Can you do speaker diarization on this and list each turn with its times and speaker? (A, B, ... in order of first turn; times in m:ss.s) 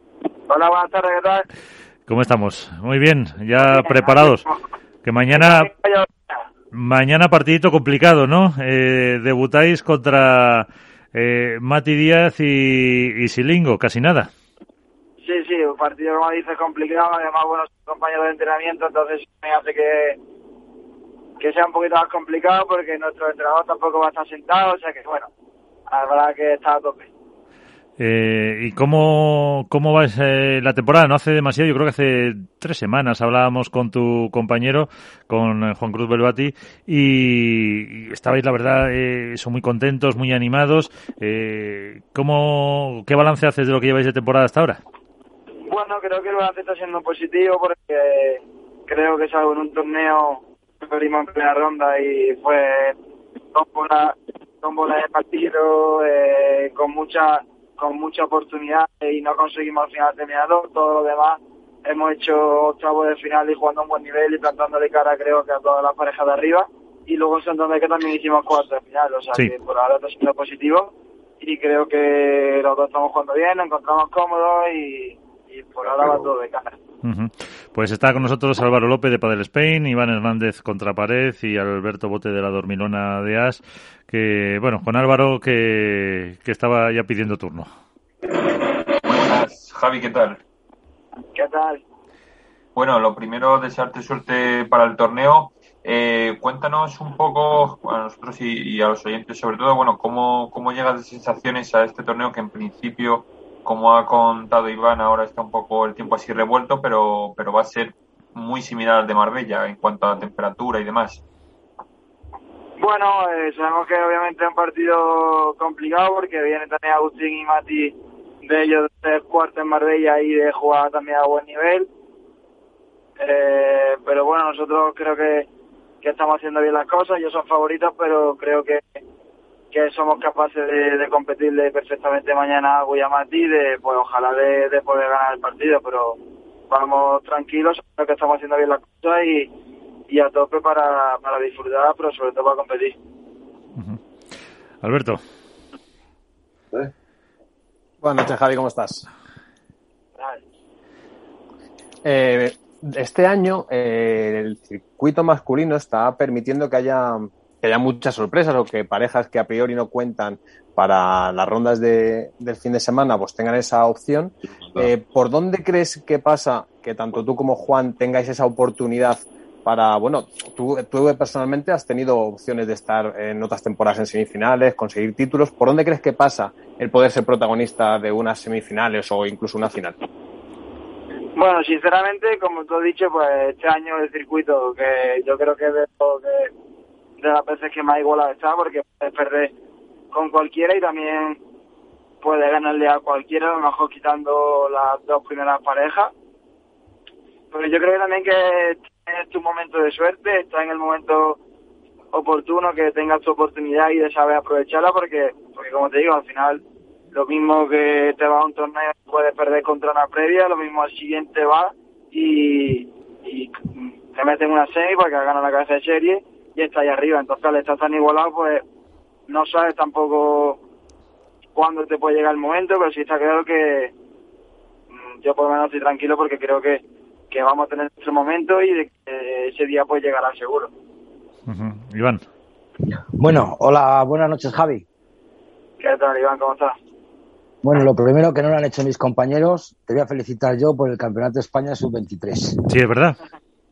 0:00.5-0:01.4 A
0:02.0-0:04.4 B
0:03.6-0:04.7 A
0:05.0-0:05.7 B
0:05.3-0:06.5 A
0:06.7-0:14.3 B
0:15.2-0:20.2 A
0:21.4-0:25.3 A
0:25.9-0:27.1 A
0:28.0-0:44.8 B
0:45.6-0:53.0 A
0:53.5-1:16.8 A
1:17.0-1:27.7 B
1:29.0-1:30.4 C
1:31.3-1:31.8 A
1:32.8-1:51.2 C
1:52.8-2:01.9 A
2:03.2-2:05.5 A
2:06.0-2:09.0 A
2:09.7-2:19.5 A
2:20.1-2:23.0 A
2:24.8-2:25.2 B
2:28.0-2:29.1 D
2:30.2-2:30.4 A
2:32.0-3:00.0 D
3:01.3-3:06.5 A
3:07.2-3:09.5 A
3:10.1-3:11.4 A
3:12.2-3:16.1 A
3:17.5-3:21.4 A
3:22.1-3:38.6 A
3:39.3-3:40.6 A
3:41.5-3:43.9 A
3:44.9-3:50.7 A
3:51.5-3:52.2 B
3:53.2-3:54.8 E
3:55.8-3:56.8 A
3:57.6-4:02.6 E
4:02.7-4:03.2 B